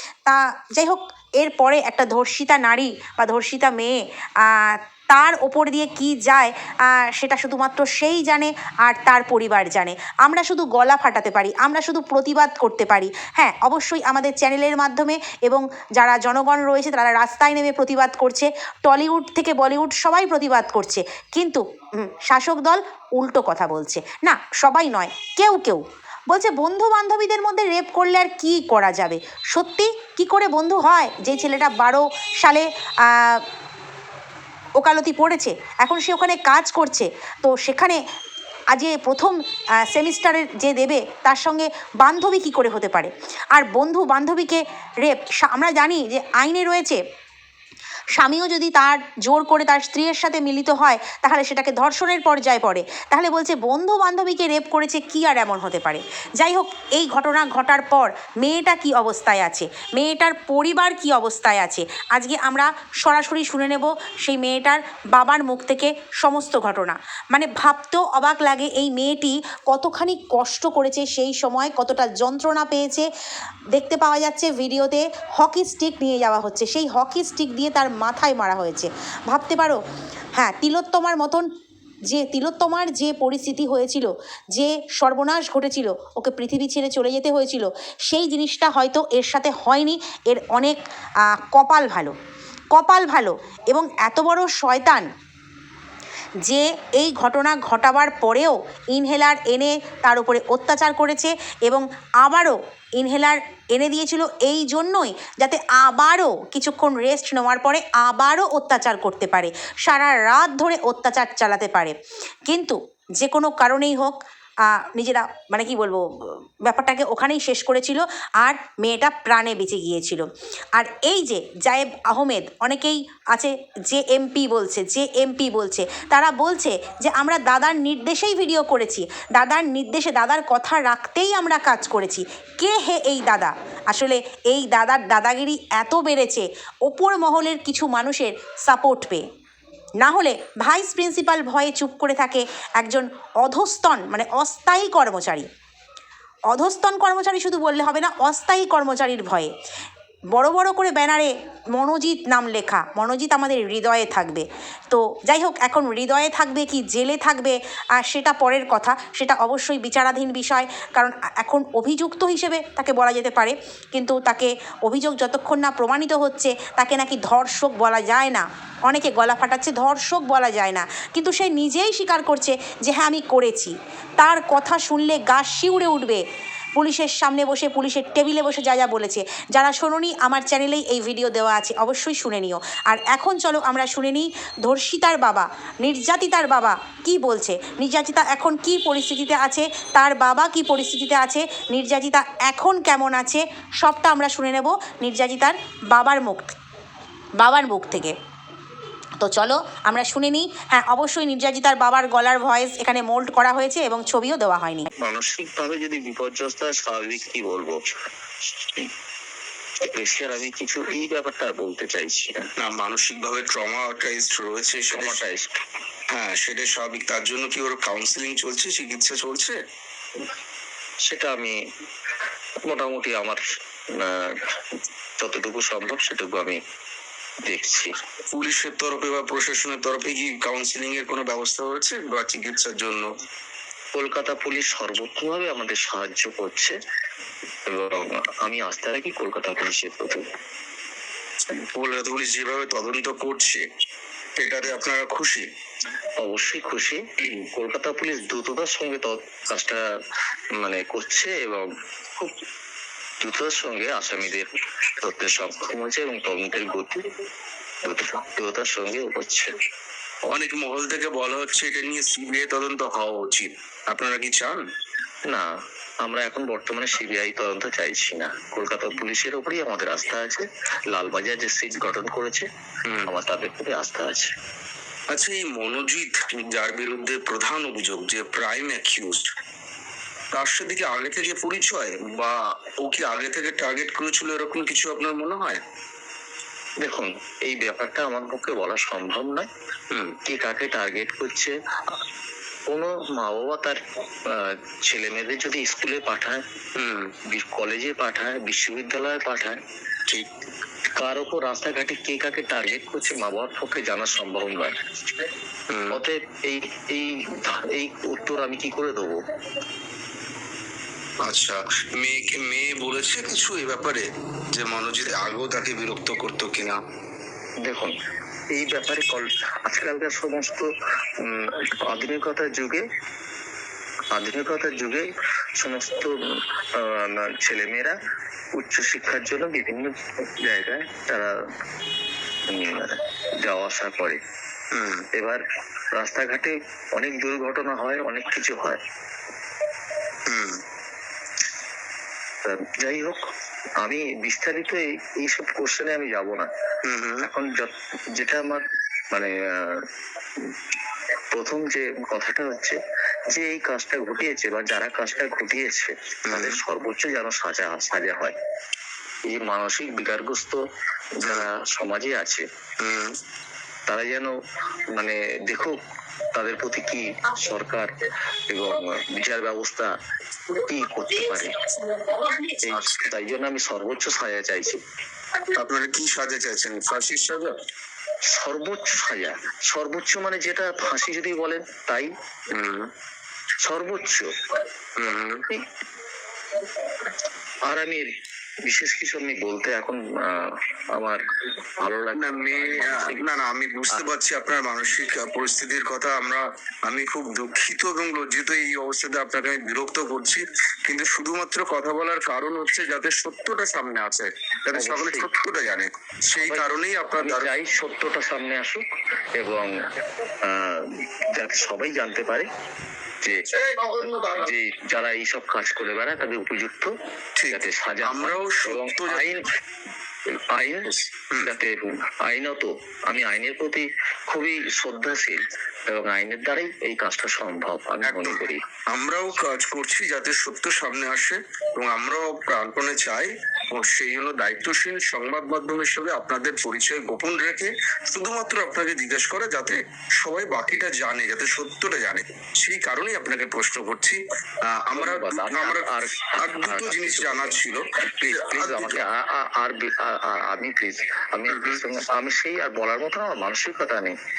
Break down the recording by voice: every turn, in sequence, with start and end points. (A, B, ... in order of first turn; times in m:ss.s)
0:00.2-0:33.4 A
0:34.8-0:38.0 A
0:38.7-0:47.0 A
0:48.2-1:13.1 A
1:13.7-1:19.8 A
1:20.4-1:21.4 A
1:22.1-1:32.1 A
1:32.7-1:35.1 A
1:36.4-1:52.0 A
1:52.5-1:54.1 A
1:54.7-1:56.0 A
1:56.6-2:00.2 A
2:00.8-2:19.2 A
2:20.0-2:25.5 A
2:26.5-2:29.5 A
2:30.3-2:56.2 A
2:56.8-3:16.5 A
3:17.4-3:18.1 A
3:19.2-3:24.9 A
3:25.0-3:27.9 B
3:28.6-3:28.9 B
3:29.8-3:32.4 B
3:32.6-3:35.2 C
3:34.9-3:35.5 B
3:36.1-3:39.6 C
3:41.1-3:41.6 B
3:42.6-3:43.4 B
3:44.0-3:44.3 B
3:45.2-3:46.6 B
3:47.4-3:47.9 B
3:48.3-3:53.1 C
3:54.0-3:56.8 B
3:57.7-4:00.2 B
4:01.5-4:03.6 C
4:04.4-4:05.5 C
4:06.2-4:09.8 B
4:10.6-4:12.3 B
4:13.2-4:17.1 B
4:17.8-4:19.5 B
4:20.3-4:24.6 C
4:26.0-4:32.4 B
4:32.9-4:33.1 C
4:33.0-4:34.3 B
4:35.1-4:39.2 C
4:40.3-4:45.6 C
4:46.8-4:49.5 B
4:49.9-4:50.2 C
4:50.2-4:52.0 B
4:52.7-4:56.4 B
4:56.8-4:57.1 C
4:57.3-4:59.6 B
5:01.0-5:05.3 B
5:05.7-5:06.0 C
5:05.9-5:09.2 B
5:11.2-5:16.8 C
5:17.6-5:17.9 B
5:18.5-5:20.7 B
5:21.2-5:22.8 B
5:24.1-5:25.1 B
5:25.6-5:26.1 B
5:26.8-5:28.0 B
5:28.6-5:31.3 B
5:32.5-5:34.2 B
5:34.7-5:35.0 C
5:35.1-5:35.4 B
5:36.0-5:38.8 B
5:40.3-5:40.6 C
5:42.4-5:43.2 B
5:43.8-5:46.5 B
5:46.8-5:47.3 C
5:47.2-5:49.8 B
5:51.3-5:52.8 B
5:53.3-5:58.4 B
5:56.2-5:56.6 C
5:59.3-6:00.6 B
6:01.2-6:02.4 B
6:02.8-6:03.2 C
6:03.9-6:04.3 B
6:04.9-6:05.8 B
6:06.3-6:07.9 B
6:08.5-6:09.9 B
6:10.6-6:11.5 B
6:12.0-6:13.1 C
6:12.6-6:14.8 B
6:15.5-6:17.5 C
6:18.3-6:22.1 B
6:22.5-6:22.9 C
6:23.6-6:24.3 B
6:25.0-6:25.4 C
6:27.7-6:28.1 B
6:28.6-6:31.2 B
6:31.8-6:33.3 B
6:32.1-6:47.5 C
6:44.7-6:45.3 B
6:46.4-6:48.8 B
6:49.3-6:49.7 B
6:50.4-6:52.5 B
6:53.6-6:54.5 C
6:54.3-6:56.9 B
6:57.4-6:59.3 C
6:57.5-6:59.4 B
7:00.3-7:08.6 B
7:00.9-7:01.5 C
7:08.0-7:29.0 C
7:24.9-7:27.6 B
7:28.2-7:34.1 B
7:31.5-7:31.8 C